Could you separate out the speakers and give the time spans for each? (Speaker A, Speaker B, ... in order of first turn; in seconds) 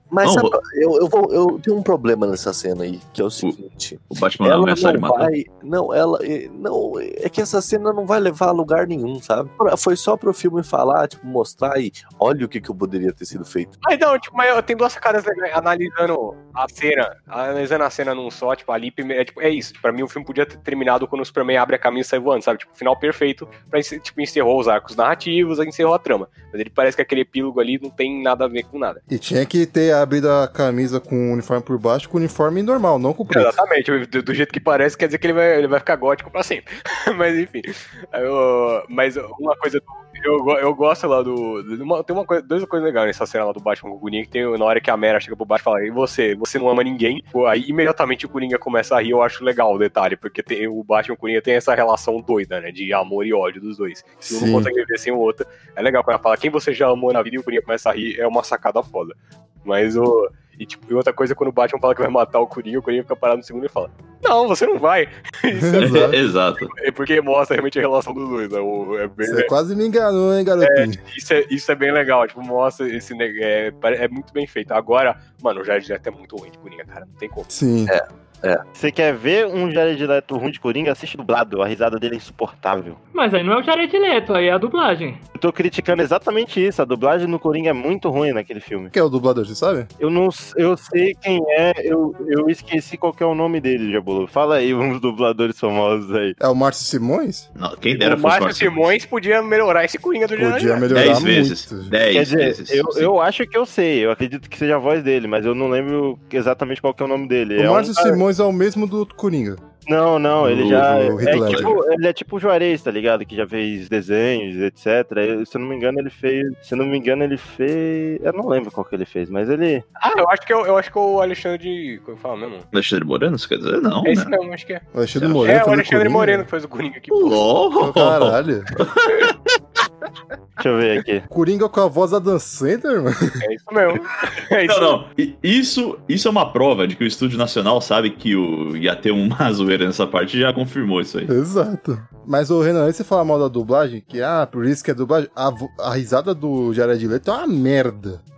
Speaker A: 0.1-13.7, 77.9-78.6
Speaker B: 0.2-0.6, 4.1-5.3, 65.8-66.7, 97.5-99.0, 100.9-103.1, 110.5-111.8, 122.7-124.3, 125.2-125.5, 127.1-129.5, 134.6-141.3
Speaker C: 13.8-29.0, 33.3-69.5, 70.6-77.5, 97.9-101.2, 120.0-122.7, 124.0-124.8, 125.4-127.5, 133.4-135.0
Speaker D: 29.1-33.5, 54.3-54.7, 65.6-66.1, 69.2-71.0, 77.5-77.9, 88.9-89.9, 96.4-97.4, 100.3-101.9, 107.6-109.6, 110.4-111.8, 124.9-126.5, 127.8-128.7, 131.3-133.4, 141.3-148.2
Speaker E: 78.8-83.0, 85.3-88.9, 90.0-96.3, 102.1-108.2, 109.8-119.8, 130.6-131.3
Speaker F: 83.1-85.2